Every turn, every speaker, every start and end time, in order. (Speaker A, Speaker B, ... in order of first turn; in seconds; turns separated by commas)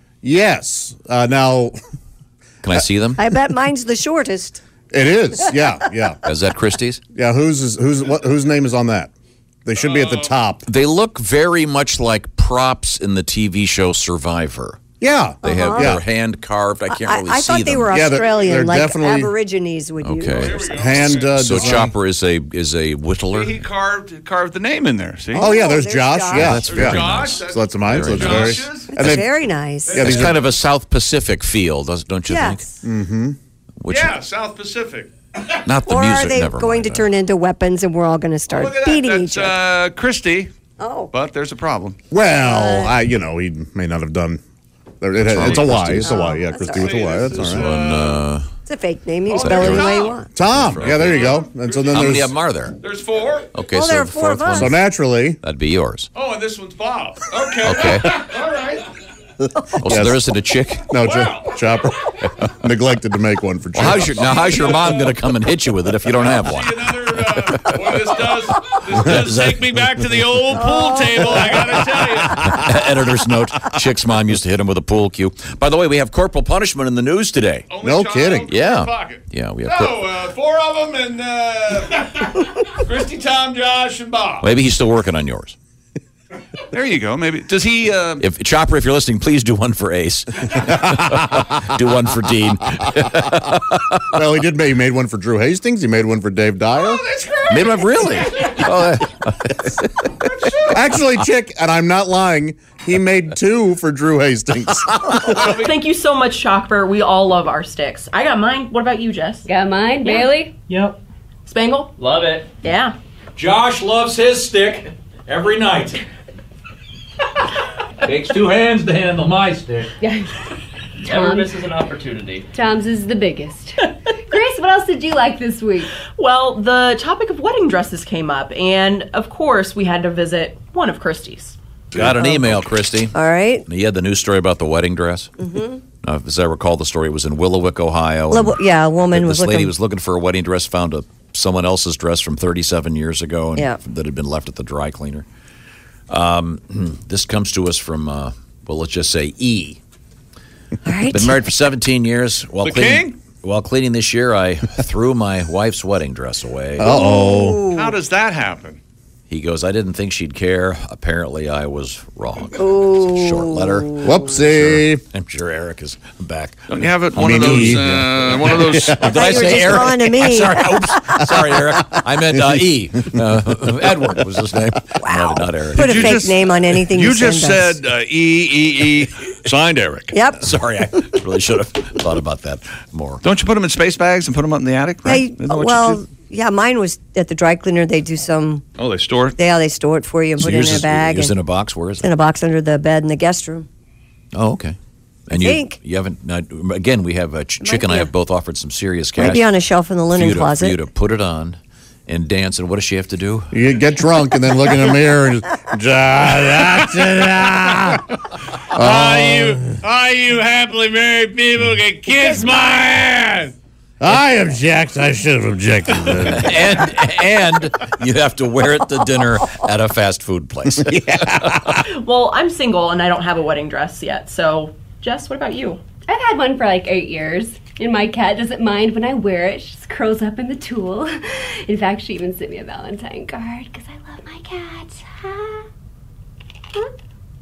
Speaker A: 0.2-1.8, Speaker B: 2.6-3.2, Speaker C: 3.2-4.6, Speaker A: 4.9-6.2, Speaker B: 6.2-7.0, Speaker A: 7.1-9.1, Speaker A: 9.7-10.6, Speaker D: 9.8-10.3, Speaker B: 10.7-14.8, Speaker A: 15.0-16.0, Speaker C: 15.4-16.0, Speaker B: 15.4-18.0, Speaker C: 16.9-20.8, Speaker A: 17.9-19.3, Speaker B: 20.0-23.6, Speaker D: 20.3-21.9, Speaker A: 20.7-21.9, Speaker D: 23.2-25.6, Speaker C: 25.3-27.0, Speaker A: 25.4-29.4, Speaker B: 26.3-29.2, Speaker D: 26.5-28.9, Speaker C: 28.9-30.1, Speaker D: 29.9-30.5, Speaker A: 29.9-30.3, Speaker B: 29.9-32.6, Speaker C: 32.3-32.8, Speaker A: 32.8-33.4, Speaker B: 33.8-34.1, Speaker D: 33.9-35.1, Speaker B: 35.6-37.0, Speaker C: 35.9-39.5, Speaker D: 38.5-40.5, Speaker C: 40.8-41.1, Speaker D: 41.1-42.0, Speaker A: 42.1-44.4, Speaker C: 42.3-42.9, Speaker A: 45.0-47.7, Speaker B: 45.2-46.2, Speaker C: 45.6-47.0, Speaker D: 46.6-48.2, Speaker B: 47.3-48.5, Speaker C: 48.6-50.3, Speaker D: 49.3-50.2, Speaker B: 49.3-52.8, Speaker A: 50.3-52.3, Speaker D: 50.7-52.2, Speaker D: 52.8-53.5, Speaker B: 53.5-54.8, Speaker C: 53.7-54.8, Speaker A: 54.5-55.4, Speaker B: 55.4-56.1, Speaker D: 56.1-58.9, Speaker B: 57.6-58.1, Speaker B: 59.8-60.9, Speaker A: 59.8-60.2, Speaker A: 60.9-64.3, Speaker D: 61.0-61.6, Speaker B: 63.7-70.2, Speaker D: 63.8-65.1, Speaker D: 66.1-72.5, Speaker C: 70.6-71.4, Speaker B: 72.3-77.7, Speaker D: 77.7-84.5, Speaker A: 77.8-78.5, Speaker B: 78.5-80.0, Speaker B: 84.4-85.5, Speaker D: 86.7-88.2, Speaker B: 88.2-94.0, Speaker A: 94.1-97.0, Speaker D: 96.7-98.6, Speaker B: 97.5-100.1, Speaker D: 100.2-101.0, Speaker A: 100.7-105.7, Speaker E: 105.2-109.5, Speaker D: 105.4-105.8, Speaker F: 109.4-110.6, Speaker E: 110.0-112.9, Speaker B: 113.4-116.0, Speaker G: 113.4-114.8, Speaker G: 115.5-115.8, Speaker B: 118.0-119.7, Speaker G: 118.4-119.8, Speaker F: 120.0-120.3, Speaker E: 121.0-122.4, Speaker F: 121.0-121.6, Speaker F: 122.5-126.0, Speaker E: 126.2-131.6, Speaker B: 131.9-135.3, Speaker C: 132.0-132.6, Speaker C: 133.1-133.7, Speaker C: 135.4-135.8, Speaker B: 136.0-145.2, Speaker C: 138.3-139.7, Speaker B: 146.1-149.8, Speaker C: 150.8-151.4, Speaker B: 151.1-156.9, Speaker D: 152.6-153.2, Speaker C: 156.8-157.9, Speaker A: 156.8-157.7, Speaker D: 157.6-158.8, Speaker B: 159.3-176.2, Speaker C: 162.6-164.2, Speaker A: 164.0-165.0, Speaker D: 166.7-169.2, Speaker A: 167.1-169.1, Speaker C: 169.0-171.2, Speaker C: 175.0-177.8, Speaker D: 175.7-180.2, Speaker C: 180.1-180.4, Speaker B: 180.4-183.2, Speaker D: 183.2-186.0, Speaker C: 185.0-188.6, Speaker D: 188.8-189.3, Speaker C: 189.3-191.4, Speaker B: 190.4-192.1, Speaker C: 192.0-193.7, Speaker B: 194.3-194.8, Speaker B: 195.3-199.5, Speaker C: 195.3-195.8, Speaker C: 197.6-198.1, Speaker C: 199.2-200.8, Speaker B: 200.1-203.5, Speaker A: 203.5-208.1, Speaker A: 208.7-209.8, Speaker D: 208.7-213.5, Speaker A: 214.0-216.6, Speaker B: 216.2-221.8, Speaker A: 220.9-221.8, Speaker E: 221.9-225.8, Speaker F: 226.1-235.7